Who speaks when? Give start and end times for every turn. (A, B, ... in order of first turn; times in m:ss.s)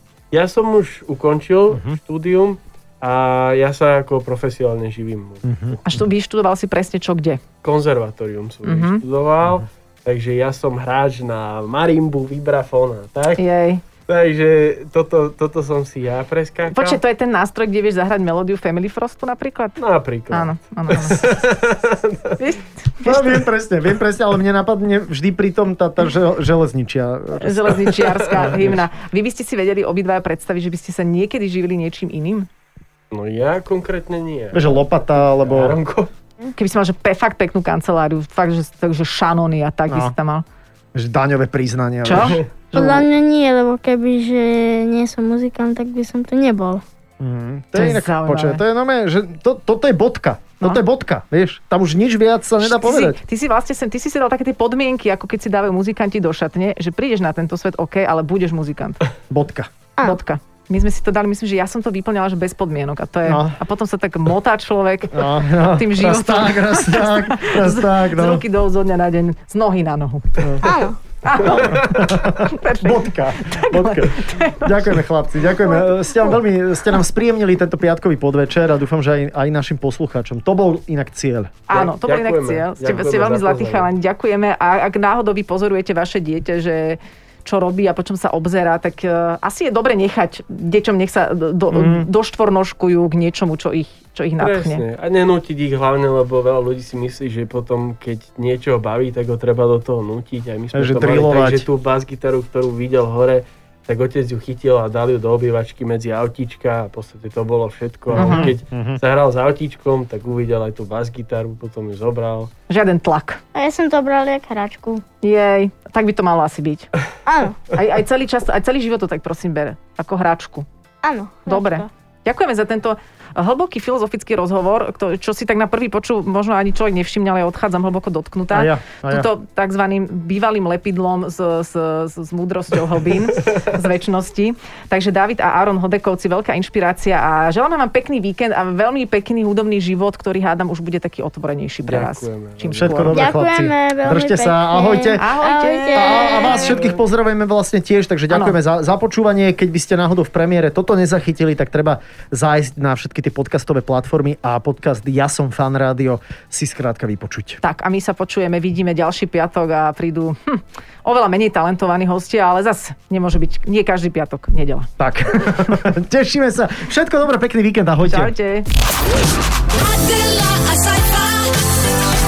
0:00.3-0:05.8 A
0:01.7-0:02.0 B
0:05.4-0:05.8 B
0:05.9-0:07.4 C
0:07.6-0:13.4 A
0:08.6-0:09.0 C
0:13.4-0:13.8 C
0:14.0-0:17.0 A
0:16.7-0:19.8 C
0:19.8-0:22.4 A
0:20.3-0:21.4 C
0:22.4-0:23.2 C
0:23.0-0:28.8 B
0:27.4-0:32.5 C
0:33.1-0:36.1 A
0:34.5-0:35.8 B
0:36.6-0:40.4 C
0:39.9-0:40.1 B
0:40.9-0:42.4 B
0:42.0-0:43.1 C
0:42.7-0:46.8 D
0:47.2-0:53.2 B
0:47.7-0:48.6 C
0:52.6-0:59.0 C
0:59.3-0:59.7 B
1:00.0-1:10.7 C
1:03.3-1:03.6 B
1:05.1-1:08.4 B
1:10.4-1:10.7 B
1:10.6-1:11.0 D
1:11.2-1:16.4 C
1:11.5-1:21.6 B
1:11.6-1:12.0 A
1:21.7-1:34.8 C
1:21.7-1:23.9 A
1:31.7-1:32.1 B
1:34.4-1:52.5 A
1:40.7-1:41.7 B
1:48.1-1:49.0 B
1:48.2-1:48.5 C
1:52.7-1:53.4 C
1:53.5-1:55.0 D
1:55.2-1:56.9 C
1:57.3-1:57.6 D
1:57.7-2:00.7 C
2:01.0-2:01.9 D
2:01.5-2:23.3 C
2:08.5-2:09.3 B
2:21.8-2:23.2 A
2:22.7-2:25.2 B
2:23.1-2:26.7 D
2:25.2-2:26.8 C
2:25.9-2:37.6 B
2:28.3-2:28.6 C
2:37.6-2:44.9 C
2:45.0-2:48.3 B
2:48.1-2:48.6 C
2:49.7-2:52.1 E